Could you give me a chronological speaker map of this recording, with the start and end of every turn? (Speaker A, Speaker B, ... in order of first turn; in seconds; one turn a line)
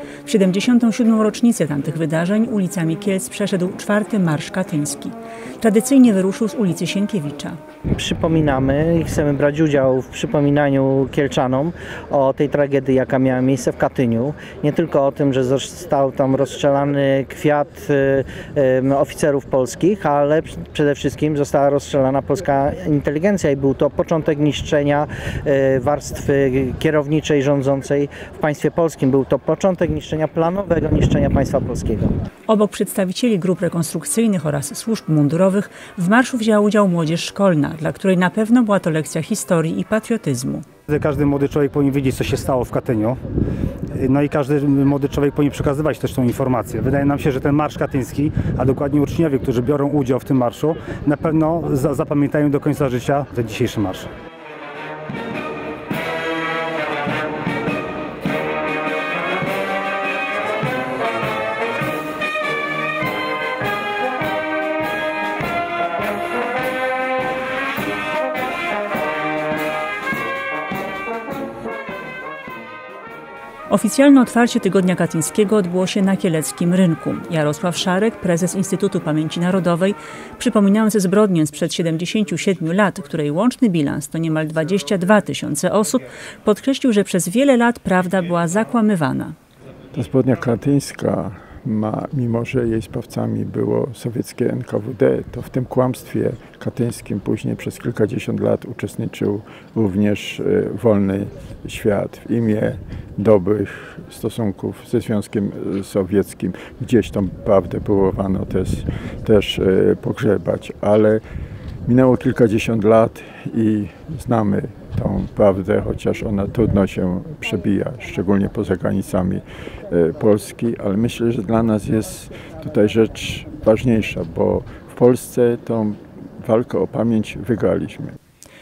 Speaker A: 0.2-7.6
Speaker B: 8.0-32.1
Speaker A: 32.5-40.7
Speaker C: 40.9-43.2
Speaker C: 44.0-54.1
Speaker A: 73.7-89.3
Speaker D: 89.9-111.2
Speaker D: 111.8-128.2